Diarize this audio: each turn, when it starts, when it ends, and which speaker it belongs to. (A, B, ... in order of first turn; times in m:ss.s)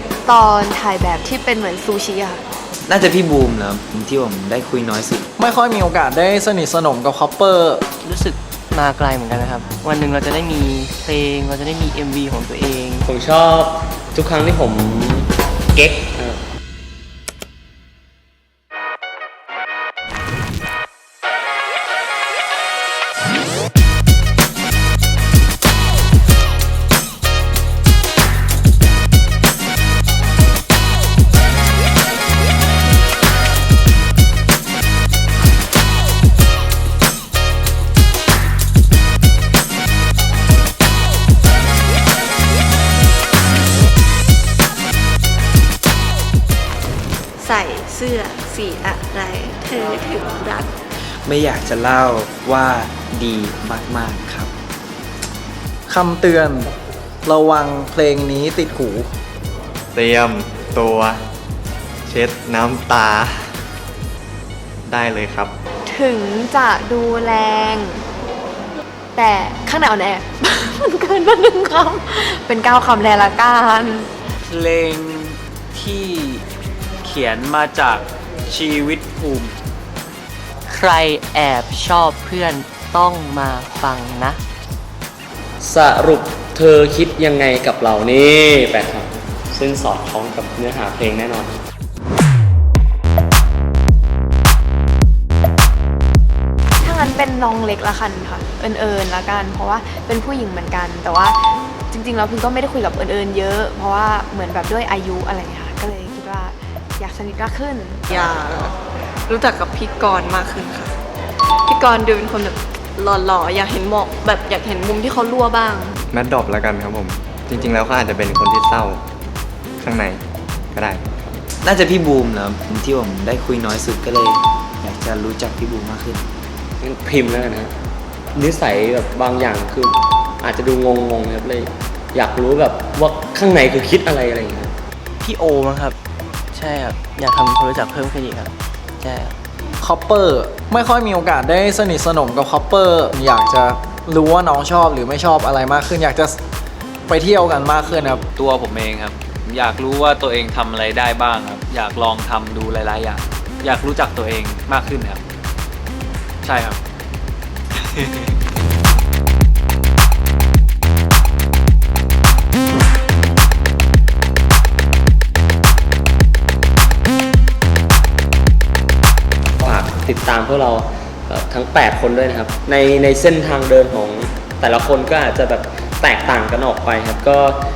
0:00.2-0:02.4 A
0:02.9-0:05.2 B
0:05.4-0:07.8 C
0:08.0-0:13.0 D
0:13.1-0:16.4 E
0:47.4-0:50.7 F
0:51.2-0:54.5 B
0:55.9-0:56.7 C
0:57.2-0:59.1 C
0:59.9-1:01.2 G
1:02.0-1:03.5 G
1:04.8-1:05.5 G
1:05.8-1:08.0 A
1:09.1-1:14.1 A
1:14.4-1:16.4 H
1:17.0-1:19.6 H
1:20.7-1:24.4 D
1:25.6-1:31.5 E
1:36.8-1:48.0 A
1:48.1-1:48.8 F
1:49.3-1:50.9 F
1:51.6-1:56.0 F
1:56.1-1:59.0 G
1:59.8-2:00.2 G
2:00.7-2:01.0 G
2:01.6-2:06.2 B
2:06.8-2:07.7 E
2:08.3-2:14.7 E
2:15.2-2:16.0 D
2:16.5-2:19.3 D
2:19.8-2:26.4 C
2:27.1-2:28.2 C
2:27.9-2:35.2 H
2:36.4-2:36.8 H
2:37.7-2:38.4 H
2:49.6-2:57.6 E